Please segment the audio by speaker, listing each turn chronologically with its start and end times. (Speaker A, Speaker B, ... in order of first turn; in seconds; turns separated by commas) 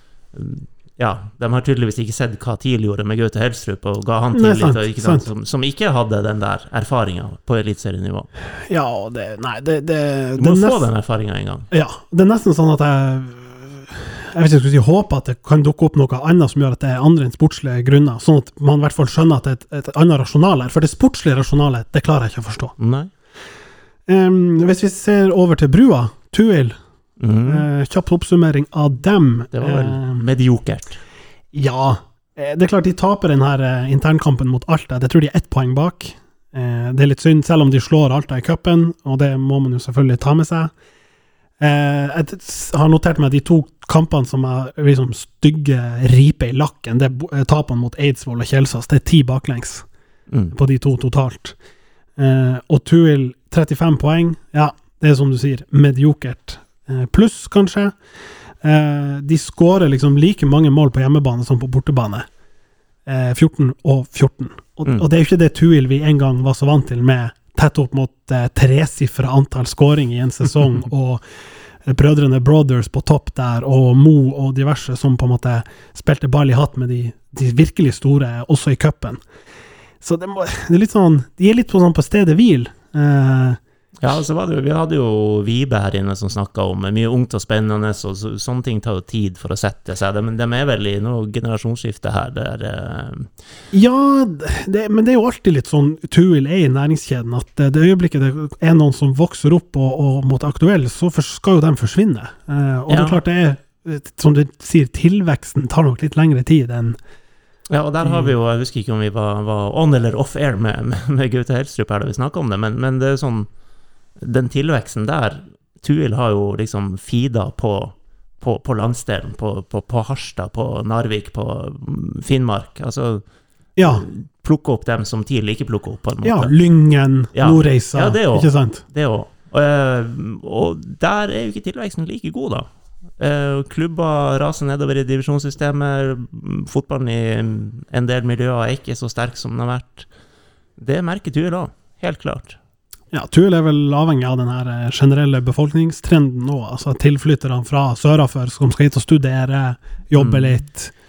Speaker A: 0.3-8.3, Speaker B: 4.3-5.3, Speaker B: 8.7-10.8, Speaker A: 10.4-11.7, Speaker B: 11.7-22.7, Speaker A: 22.8-23.1, Speaker B: 24.1-26.8, Speaker A: 27.2-27.7, Speaker B: 27.4-30.2, Speaker A: 29.5-31.0, Speaker B: 31.5-40.7, Speaker B: 41.6-49.9, Speaker A: 50.3-50.5, Speaker B: 50.5-51.5, Speaker B: 52.2-58.0, Speaker B: 58.6-62.3, Speaker B: 63.0-71.2, Speaker B: 71.8-79.2, Speaker B: 80.0-83.6, Speaker A: 84.0-93.3, Speaker B: 93.7-107.0, Speaker A: 102.9-103.2, Speaker A: 107.7-113.5, Speaker B: 108.0-108.3, Speaker A: 114.2-140.1, Speaker B: 123.8-124.0, Speaker B: 126.2-128.8, Speaker A: 140.8-142.6, Speaker B: 143.1-150.9, Speaker A: 150.2-150.6